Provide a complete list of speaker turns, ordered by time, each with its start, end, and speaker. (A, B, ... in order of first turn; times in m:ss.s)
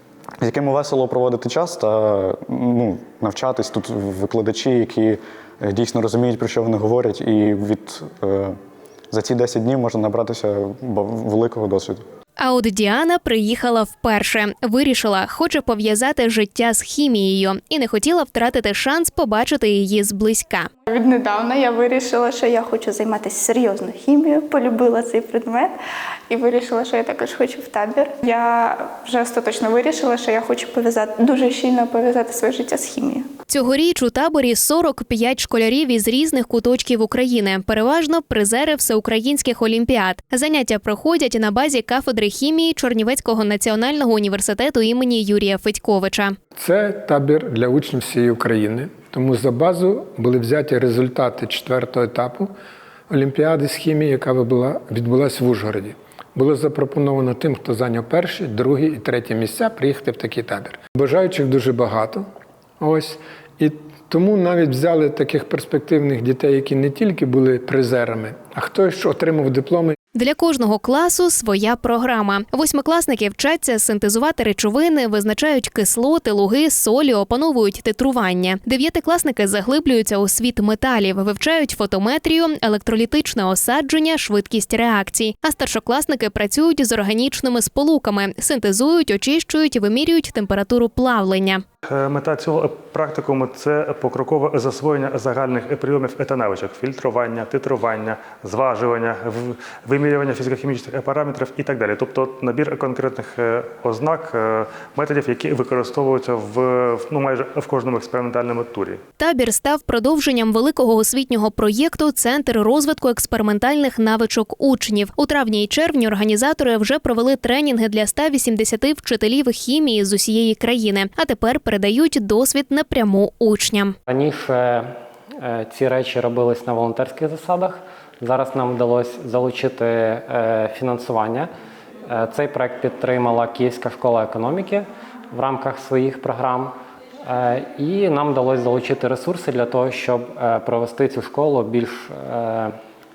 0:00.4-0:08.6 A
0:09.1-0:12.0 A
0:12.4-0:20.7 B
0:20.9-0:25.7 C
0:26.3-0:33.3 C
0:33.5-0:46.3 B
0:46.6-0:52.5 D
0:53.1-1:02.2 D
1:02.8-1:09.9 D
1:10.1-1:31.6 B
1:31.8-1:49.0 E
1:49.2-2:03.9 B
2:04.1-2:11.5 F
2:12.0-2:16.7 F
2:17.2-2:22.7 F